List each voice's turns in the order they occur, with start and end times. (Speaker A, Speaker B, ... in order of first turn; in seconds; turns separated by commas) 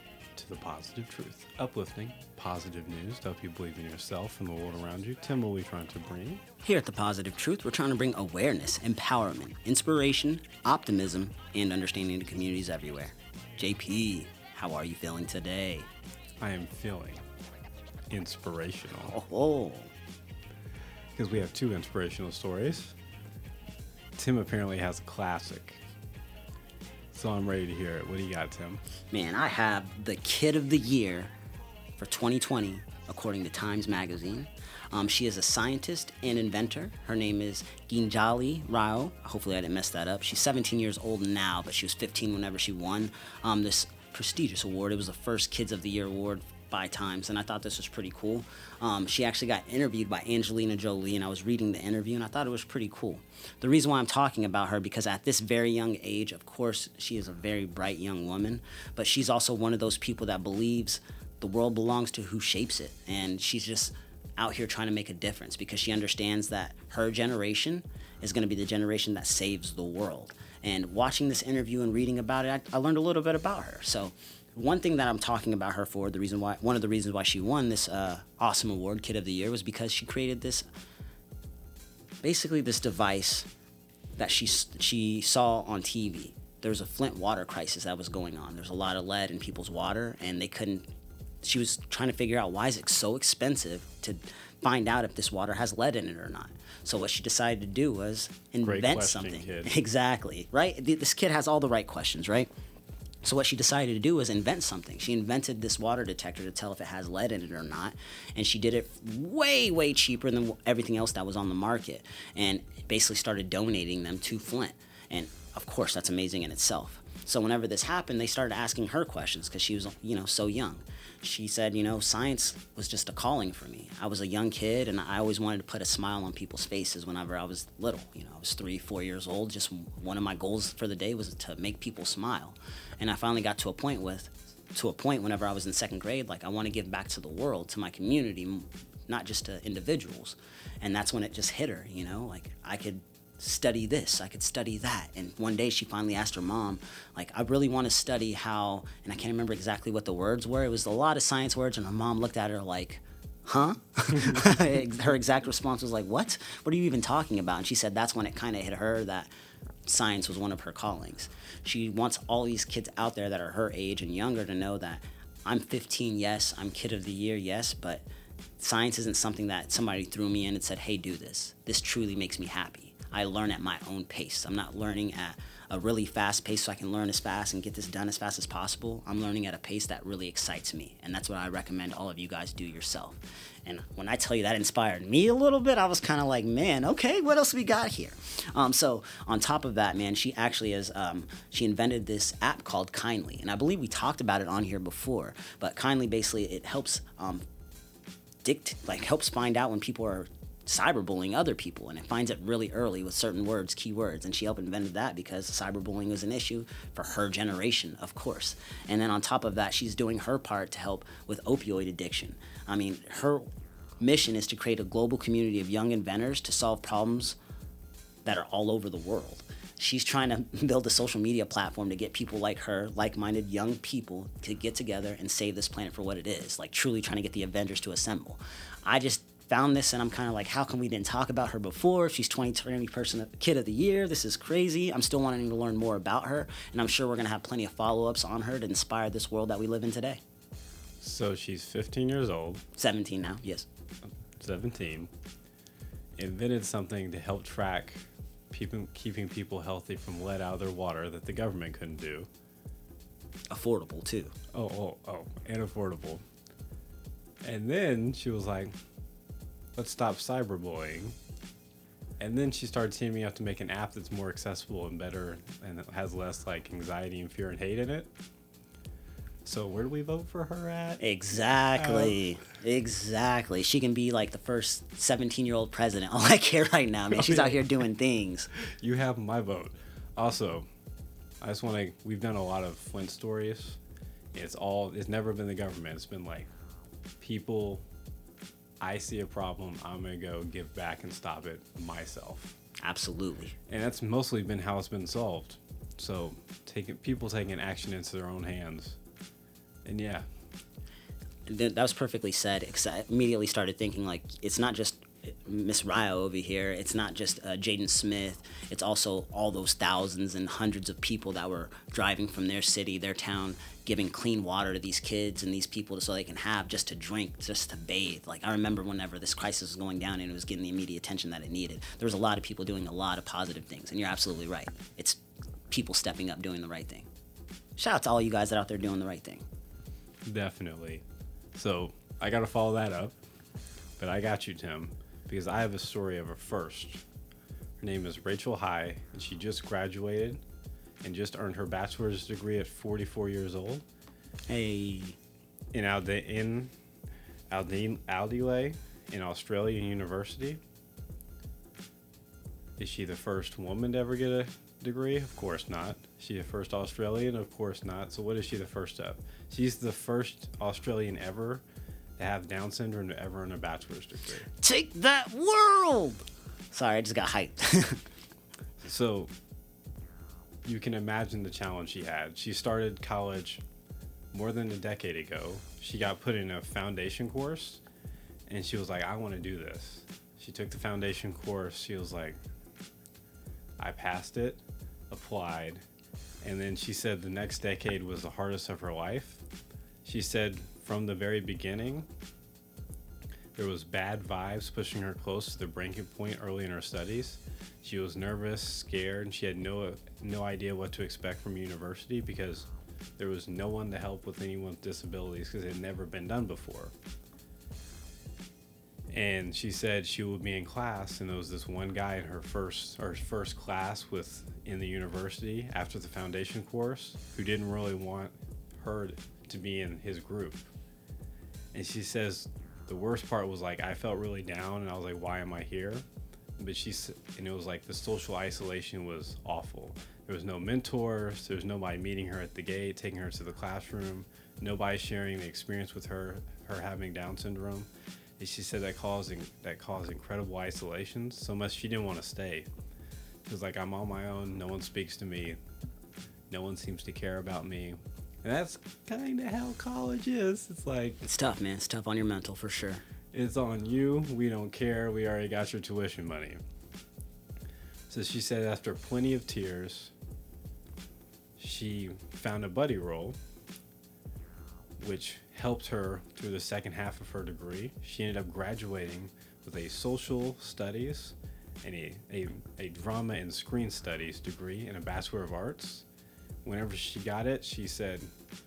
Speaker A: 0.3-6.4, Speaker B: 6.6-15.9, Speaker A: 16.4-17.2, Speaker A: 18.1-19.1, Speaker B: 19.0-19.9, Speaker A: 21.1-22.9, Speaker A: 24.1-25.8, Speaker A: 27.1-28.8, Speaker B: 29.1-31.3, Speaker B: 32.0-80.7, Speaker B: 82.2-83.5, Speaker B: 84.2-90.8, Speaker B: 91.4-102.5, Speaker A: 98.6-99.8, Speaker B: 103.2-159.3, Speaker B: 159.8-168.0, Speaker B: 168.6-197.4, Speaker B: 198.4-213.5, Speaker B: 214.0-217.4, Speaker B: 218.2-240.2, Speaker A: 241.0-242.6, Speaker B: 242.8-243.7, Speaker A: 244.4-245.1, Speaker A: 246.2-252.3, Speaker B: 253.5-254.3, Speaker A: 254.5-256.2, Speaker A: 257.4-258.7, Speaker A: 259.8-261.2, Speaker A: 262.2-268.1, Speaker A: 269.4-271.0, Speaker B: 271.0-278.5, Speaker A: 271.8-272.2, Speaker A: 277.1-277.6, Speaker A: 278.8-280.7, Speaker A: 281.4-283.8, Speaker A: 284.3-286.5, Speaker A: 287.2-287.8, Speaker A: 288.8-292.6, Speaker B: 292.8-293.5, Speaker A: 293.7-299.0, Speaker A: 299.9-300.2, Speaker B: 301.5-327.1, Speaker B: 327.8-329.4, Speaker A: 330.2-331.0, Speaker A: 331.5-333.2, Speaker A: 334.0-337.0, Speaker A: 337.8-340.4, Speaker A: 341.0-343.8, Speaker B: 344.5-345.2, Speaker A: 345.7-346.7, Speaker A: 347.5-350.6, Speaker A: 352.8-361.6, Speaker A: 362.2-364.5, Speaker B: 364.5-368.0, Speaker A: 368.8-369.3, Speaker A: 370.6-373.6, Speaker A: 374.3-377.8, Speaker A: 378.5-382.4, Speaker A: 383.8-384.6, Speaker A: 385.1-385.8, Speaker A: 386.4-389.4, Speaker A: 390.0-392.1, Speaker A: 393.5-406.9, Speaker A: 409.1-420.7, Speaker A: 421.7-426.0, Speaker A: 426.6-442.7, Speaker A: 443.4-445.6, Speaker A: 446.5-451.2, Speaker B: 451.2-453.0, Speaker A: 453.3-456.6, Speaker A: 458.1-460.1, Speaker A: 461.6-463.4, Speaker A: 465.0-476.1, Speaker A: 476.6-478.3